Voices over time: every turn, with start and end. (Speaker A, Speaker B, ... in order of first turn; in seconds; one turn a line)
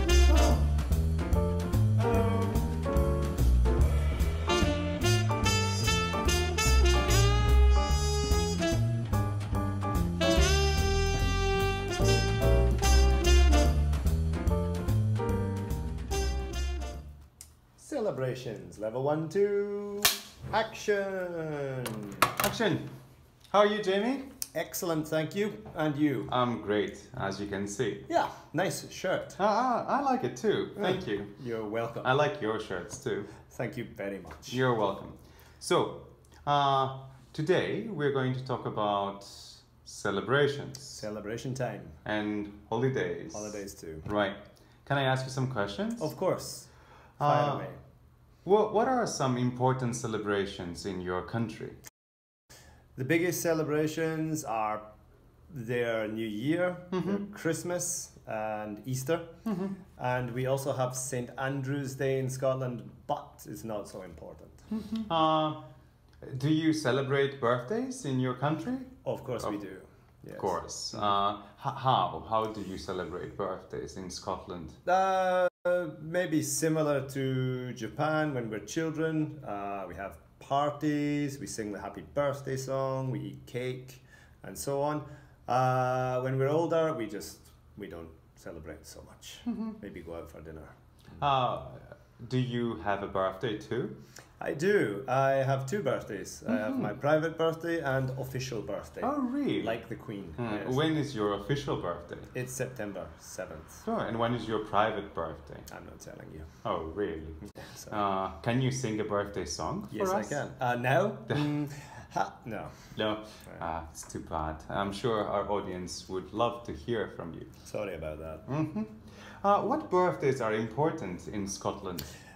Speaker A: 2.0-2.5
Speaker A: 17.8-22.1
Speaker B: 22.4-22.9
Speaker B: 23.5-24.3
Speaker A: 24.5-26.3
Speaker B: 26.3-28.1
Speaker A: 28.1-29.4
Speaker B: 29.4-31.3
Speaker A: 30.8-32.1
Speaker B: 32.0-33.3
Speaker A: 33.5-34.6
Speaker B: 34.5-41.0
Speaker A: 40.9-42.0
Speaker B: 42.0-46.1
Speaker A: 43.3-44.1
Speaker A: 46.0-47.8
Speaker B: 47.2-47.7
Speaker B: 48.4-51.8
Speaker A: 53.0-54.8
Speaker A: 55.5-59.3
Speaker B: 56.9-57.2
Speaker B: 59.5-59.8
Speaker A: 60.0-64.6
Speaker B: 64.9-65.6
Speaker B: 66.2-69.6
Speaker A: 69.0-71.1
Speaker B: 70.3-74.8
Speaker A: 74.8-90.7
Speaker B: 89.5-89.7
Speaker B: 91.2-94.0
Speaker A: 94.4-100.8
Speaker B: 96.5-96.9
Speaker B: 99.0-99.8
Speaker B: 100.4-102.3
Speaker A: 102.3-103.8
Speaker B: 103.8-105.7
Speaker A: 105.7-106.5
Speaker B: 106.6-110.4
Speaker A: 107.5-108.0
Speaker A: 109.9-113.6
Speaker B: 111.3-111.5
Speaker B: 112.9-117.5
Speaker A: 117.6-118.5
Speaker B: 118.5-122.1